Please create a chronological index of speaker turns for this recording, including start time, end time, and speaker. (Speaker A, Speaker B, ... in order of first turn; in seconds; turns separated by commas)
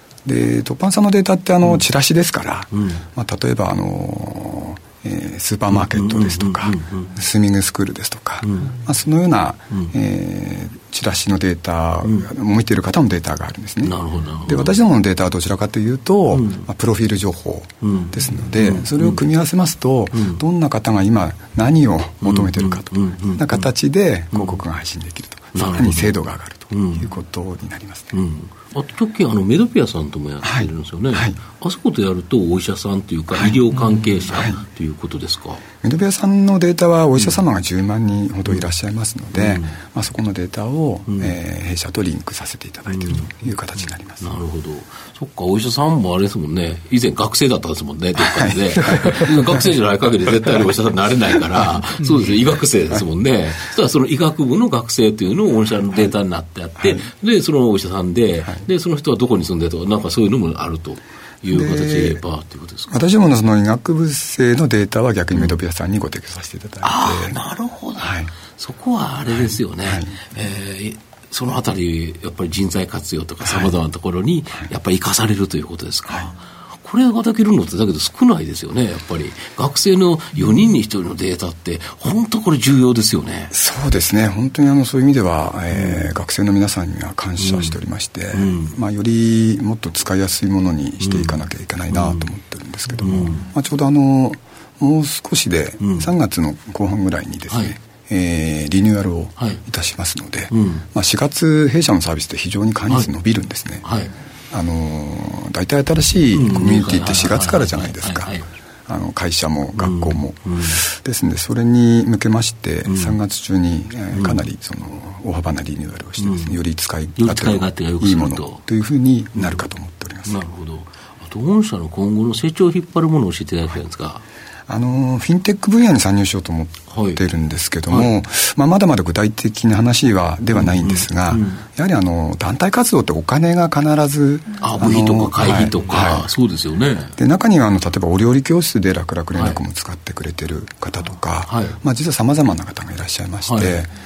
Speaker A: 0.2-28.1, Speaker B: 2.7-3.0, Speaker B: 5.7-7.1, Speaker B: 8.4-8.7, Speaker B: 13.8-14.8, Speaker B: 16.3-16.6, Speaker B: 17.8-19.2, Speaker B: 20.1-20.4, Speaker B: 22.2-23.7, Speaker B: 24.3-24.6, Speaker B: 25.6-27.1, Speaker B: 28.1-35.6, Speaker A: 30.4-31.4, Speaker A: 33.3-33.6, Speaker A: 34.3-34.6, Speaker A: 35.8-44.4, Speaker B: 39.3-39.7, Speaker B: 42.9-43.3, Speaker B: 44.2-63.0, Speaker A: 48.2-49.2, Speaker A: 56.8-57.1, Speaker A: 61.5-62.2, Speaker A: 62.9-67.4, Speaker B: 66.8-83.5, Speaker A: 68.0-68.3, Speaker A: 69.3-70.2, Speaker A: 73.4-73.8, Speaker A: 83.5-103.9, Speaker B: 85.7-86.1, Speaker B: 87.4-87.8, Speaker B: 88.3-88.8, Speaker B: 91.0-92.3, Speaker B: 93.0-93.4, Speaker B: 95.8-96.1, Speaker B: 97.5-97.8, Speaker B: 100.5-100.8, Speaker B: 103.8-104.1, Speaker A: 104.5-108.3, Speaker B: 106.3-108.5, Speaker A: 108.9-120.4, Speaker B: 109.8-110.8, Speaker B: 112.9-113.2, Speaker B: 114.1-114.5, Speaker B: 116.2-116.6, Speaker B: 117.2-118.6, Speaker B: 119.3-119.7, Speaker B: 120.3-124.2, Speaker A: 124.7-136.3, Speaker B: 126.9-127.2, Speaker B: 127.9-128.1, Speaker B: 130.6-131.6, Speaker B: 134.6-137.2, Speaker A: 137.2-143.9, Speaker B: 139.3-139.6, Speaker B: 141.5-141.8, Speaker B: 143.4-143.8